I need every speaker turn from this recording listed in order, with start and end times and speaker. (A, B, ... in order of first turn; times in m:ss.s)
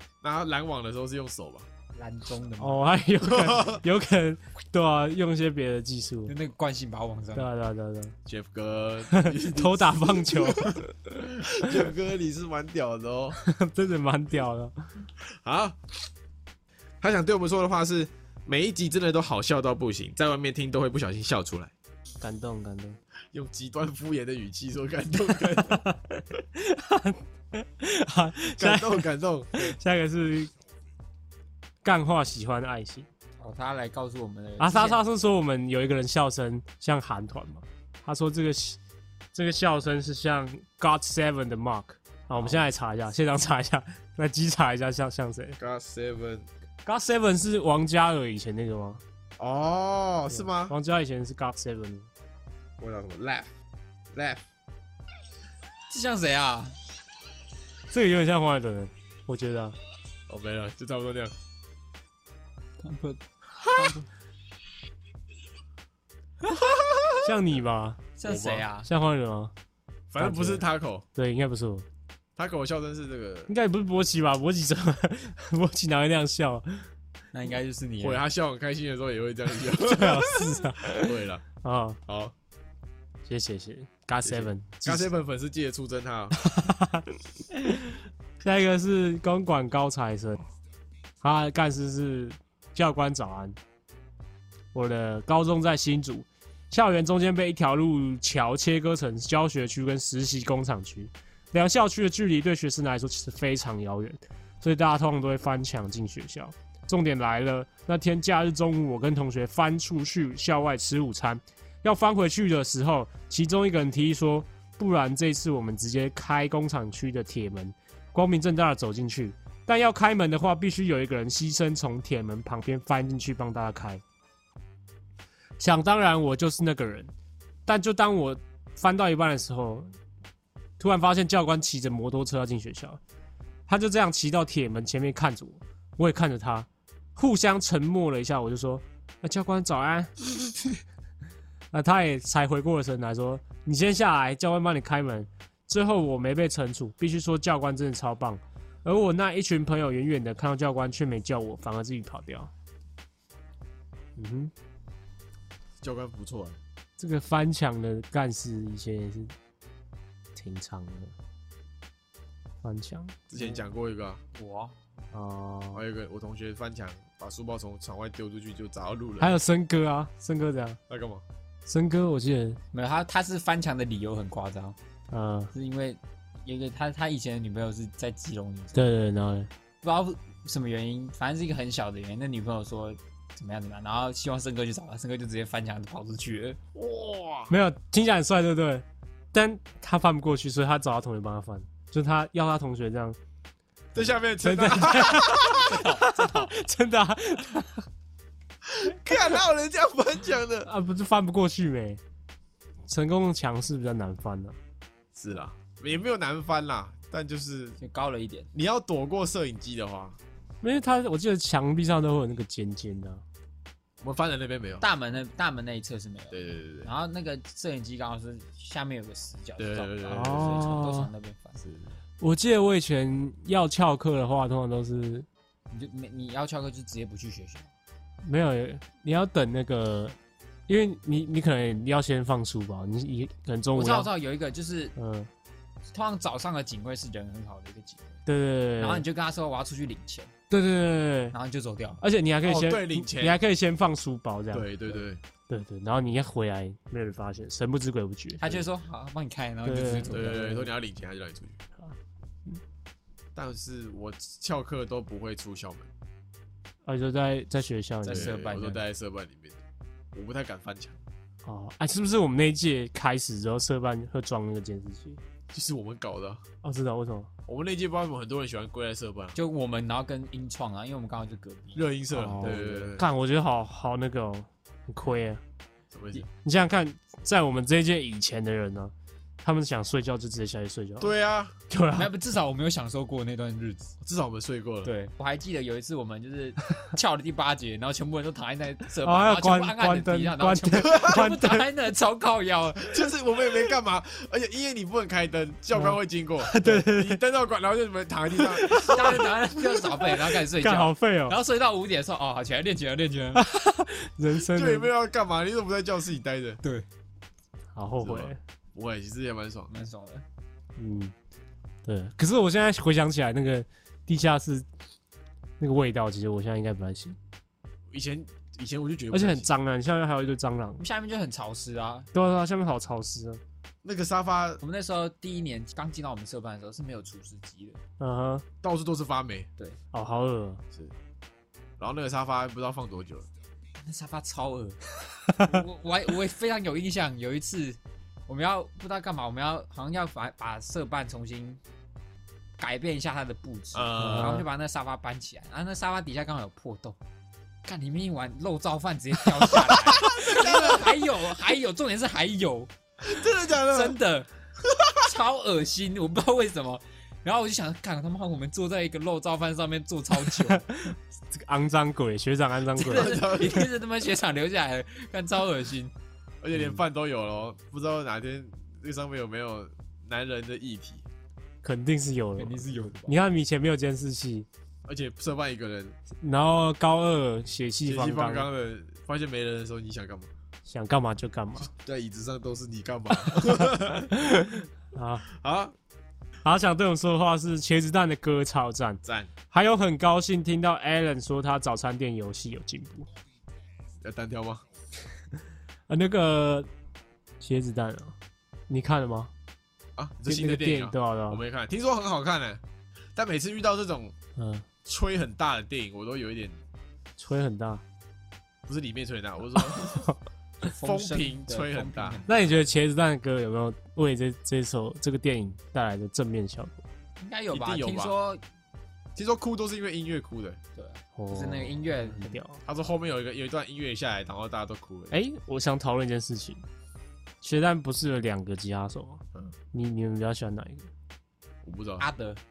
0:00.2-0:01.7 A
0:01.9-0:02.9 B
0:02.6-0:06.3 C
0:03.2-0:03.8 A
0:06.3-0:07.5 B
0:07.4-0:08.2 C
0:08.3-0:10.8 A
0:09.1-0:11.9 C
0:11.4-0:13.4 A
0:13.4-0:14.8 C
0:15.2-0:15.8 A
0:17.0-0:21.7 A
0:22.2-0:23.0 C
0:23.3-0:25.8 A
0:25.6-0:30.5 C
0:28.4-0:29.8 A
0:31.8-0:33.1 C
0:33.4-0:35.0 B
0:34.6-0:38.8 C
0:39.4-0:45.6 C
0:42.4-0:42.7 B
0:45.6-0:46.5 A
0:46.8-0:49.0 C
0:49.4-0:50.8 A
0:50.3-0:52.1 C
0:52.8-0:53.5 A
0:54.1-0:54.4 A
0:55.9-0:56.8 B
0:57.9-0:59.8 C
1:00.3-1:01.3 A
1:02.8-1:04.1 B
1:07.1-1:08.1 C
1:08.2-1:08.9 B
1:08.2-1:08.6 A
1:08.8-1:09.5 C
1:10.1-1:11.0 A
1:10.2-1:11.9 C
1:12.4-1:13.5 A
1:13.5-1:16.9 C
1:17.3-1:18.2 B
1:18.0-1:21.4 A
1:19.7-1:22.0 C
1:22.1-1:22.3 A
1:23.3-1:25.1 C
1:24.2-1:26.4 A
1:26.4-1:30.4 C
1:31.2-1:33.6 C
1:34.7-2:04.0 C
2:05.6-2:07.1 C
2:07.7-2:09.9 C
2:10.8-2:13.0 C
2:13.7-2:20.3 C
2:21.7-2:32.5 C
2:34.2-2:34.5 C
2:35.8-2:36.6 A
2:37.0-2:39.3 C
2:40.4-2:41.1 C
2:42.6-2:43.2 C
2:43.3-2:44.2 A
2:44.4-2:44.8 B
2:45.1-2:45.8 C
2:45.7-2:49.4 A
2:49.2-2:50.8 C
2:50.9-2:51.2 A
2:51.7-2:52.6 C
2:52.7-2:54.8 B
2:55.1-2:55.5 C
2:55.5-2:58.9 B
2:58.8-2:59.5 C
2:59.8-3:06.6 B
3:06.7-3:07.6 A
3:07.5-3:13.2 C
3:14.0-3:15.8 A
3:14.4-3:17.9 C
3:15.5-3:16.5 B
3:18.6-3:20.7 A
3:20.6-3:22.0 C
3:22.9-3:24.6 C
3:25.1-3:27.8 A
3:27.8-3:28.5 B
3:28.5-3:30.2 A
3:30.6-3:33.2 C
3:34.0-3:34.9 A
3:34.8-3:41.6 B
3:36.3-3:36.9 A
3:39.6-3:40.7 A
3:40.1-3:41.1 C
3:41.6-3:41.9 A
3:42.2-3:45.3 C
3:45.7-3:47.7 B
3:48.2-3:50.2 C
3:50.7-3:54.1 C
3:53.7-3:55.0 B
3:55.0-3:55.3 C
3:55.9-3:58.2 B
3:58.3-3:59.0 C
3:58.8-4:00.3 B
4:00.5-4:01.4 C
4:01.3-4:02.0 B
4:02.0-4:04.8 C
4:02.4-4:03.4 A
4:04.5-4:05.2 A
4:05.5-4:08.4 C
4:08.4-4:10.7 B
4:09.6-4:10.7 C
4:10.1-4:11.6 A
4:13.4-4:15.9 A
4:16.8-4:18.4 C
4:18.0-4:18.8 B
4:18.0-4:19.6 A
4:20.1-4:21.0 A
4:21.4-4:25.2 C
4:25.5-4:26.4 A
4:26.6-4:27.3 C
4:27.5-4:29.4 A
4:29.4-4:32.9 B
4:31.8-4:33.1 A
4:32.1-4:35.4 C
4:35.9-4:36.3 A
4:36.4-4:38.9 C
4:39.4-4:41.1 C
4:41.0-4:41.6 A
4:41.7-4:42.1 C
4:41.9-4:43.9 B
4:44.0-4:44.9 A
4:44.8-4:53.0 B
4:48.9-4:51.7 C
4:50.8-4:51.2 A
4:52.9-4:59.3 A
4:55.7-4:57.2 C
4:58.4-4:59.3 C
4:58.7-5:03.4 B
5:00.2-5:01.4 C
5:03.4-5:04.9 C
5:04.5-5:06.6 A
5:07.8-5:08.4 C
5:08.0-5:09.7 A
5:09.7-5:10.2 B
5:10.8-5:11.1 C
5:11.8-5:14.7 C
5:15.6-5:17.2 C
5:17.9-5:19.5 A
5:19.1-5:20.8 C
5:20.8-5:22.1 B
5:22.1-5:23.4 C
5:23.8-5:24.6 A
5:24.6-5:27.8 B
5:28.0-5:28.4 C
5:28.6-5:29.5 A
5:29.9-5:30.6 C
5:31.8-5:33.3 A
5:33.8-5:41.6 B
5:42.6-5:47.0 B
5:43.7-5:44.5 A
5:44.0-5:44.5 C
5:47.7-5:52.7 B
5:50.0-5:50.9 A
5:53.0-5:54.0 A
5:53.6-5:54.3 B
5:54.6-5:55.0 A
5:55.0-6:00.6 B
6:00.3-6:03.6 C
6:02.8-6:05.9 B
6:02.8-6:03.7 A
6:06.4-6:11.0 A
6:11.6-6:14.5 C
6:12.4-6:13.2 B
6:14.9-6:16.0 A
6:16.2-6:18.5 C
6:17.8-6:20.3 A
6:20.7-6:21.7 C
6:21.7-6:24.2 A
6:24.1-6:25.3 C
6:25.3-6:25.8 A
6:26.4-6:33.1 C
6:29.0-6:29.3 A
6:34.0-6:34.6 A
6:35.9-6:36.7 C
6:37.4-6:38.2 C
6:38.7-6:39.3 C
6:40.0-6:42.6 A
6:40.3-6:41.4 C
6:43.2-6:44.2 A
6:44.4-6:44.6 C
6:44.8-6:46.6 A
6:47.2-6:47.8 C
6:48.7-6:50.1 A
6:49.8-6:50.2 C
6:50.6-6:52.7 B
6:50.8-6:52.2 A
6:52.3-6:56.8 C
6:57.2-6:58.4 B
6:57.5-6:58.1 A
6:59.2-7:00.6 A
7:00.8-7:02.4 B
7:01.2-7:02.6 C
7:02.6-7:05.2 A
7:05.1-7:06.6 C
7:07.4-7:09.2 C
7:09.7-7:10.9 C
7:11.6-7:12.0 A
7:12.0-7:12.4 B